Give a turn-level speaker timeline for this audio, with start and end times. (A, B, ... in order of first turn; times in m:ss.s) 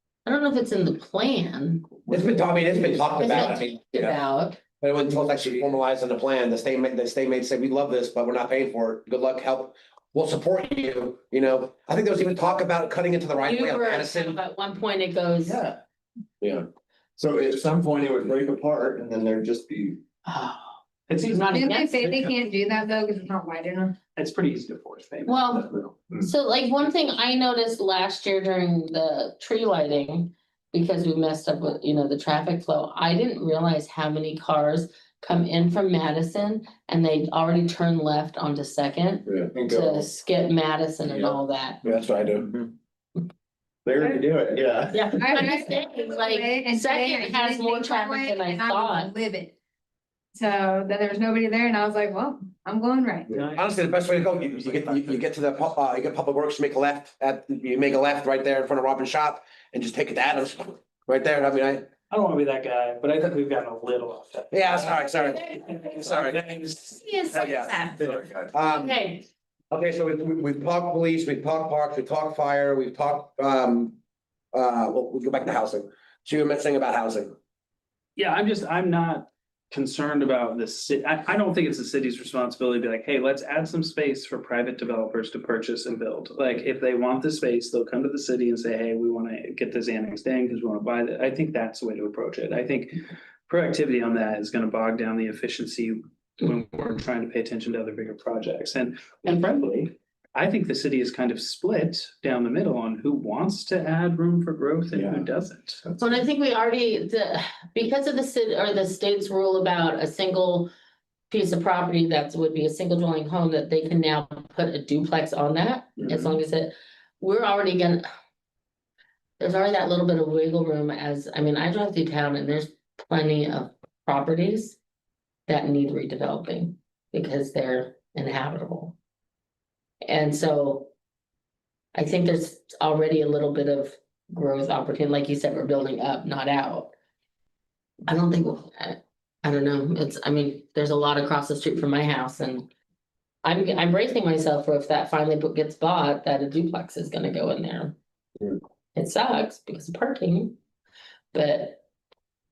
0:00.2-0:02.2 A
0:02.1-0:04.1 B
0:03.2-0:04.6 A
0:04.8-0:14.4 B
0:13.4-0:15.6 A
0:15.4-0:15.8 C
0:16.4-0:16.7 B
0:17.2-0:20.0 C
0:20.2-0:20.7 A
0:21.1-0:22.1 D
0:21.3-0:22.1 A
0:21.5-0:24.0 E
0:24.2-0:26.0 D
0:25.2-0:25.7 A
0:26.2-0:41.8 A
0:39.5-0:40.1 C
0:41.0-0:41.4 C
0:41.8-0:42.5 B
0:42.4-0:42.7 C
0:43.8-0:45.1 C
0:44.9-0:49.1 A
0:45.1-0:49.5 E
0:50.3-0:53.3 E
0:53.3-0:55.2 D
0:53.5-1:01.9 B
1:02.1-1:08.2 D
1:04.5-1:06.4 B
1:07.0-1:07.9 A
1:07.6-1:08.5 C
1:08.5-1:09.0 B
1:08.7-1:09.2 A
1:09.7-1:14.0 B
1:14.5-1:17.3 B
1:18.2-1:45.8 D
1:44.9-1:46.2 C
1:46.0-1:50.7 A
1:51.3-1:58.0 A
1:59.4-2:04.8 A
2:05.5-2:09.0 A
2:10.0-2:10.9 A
2:11.9-2:16.9 A
2:18.1-2:22.7 A
2:23.4-2:28.0 A
2:28.9-2:30.6 A
2:31.3-2:31.8 A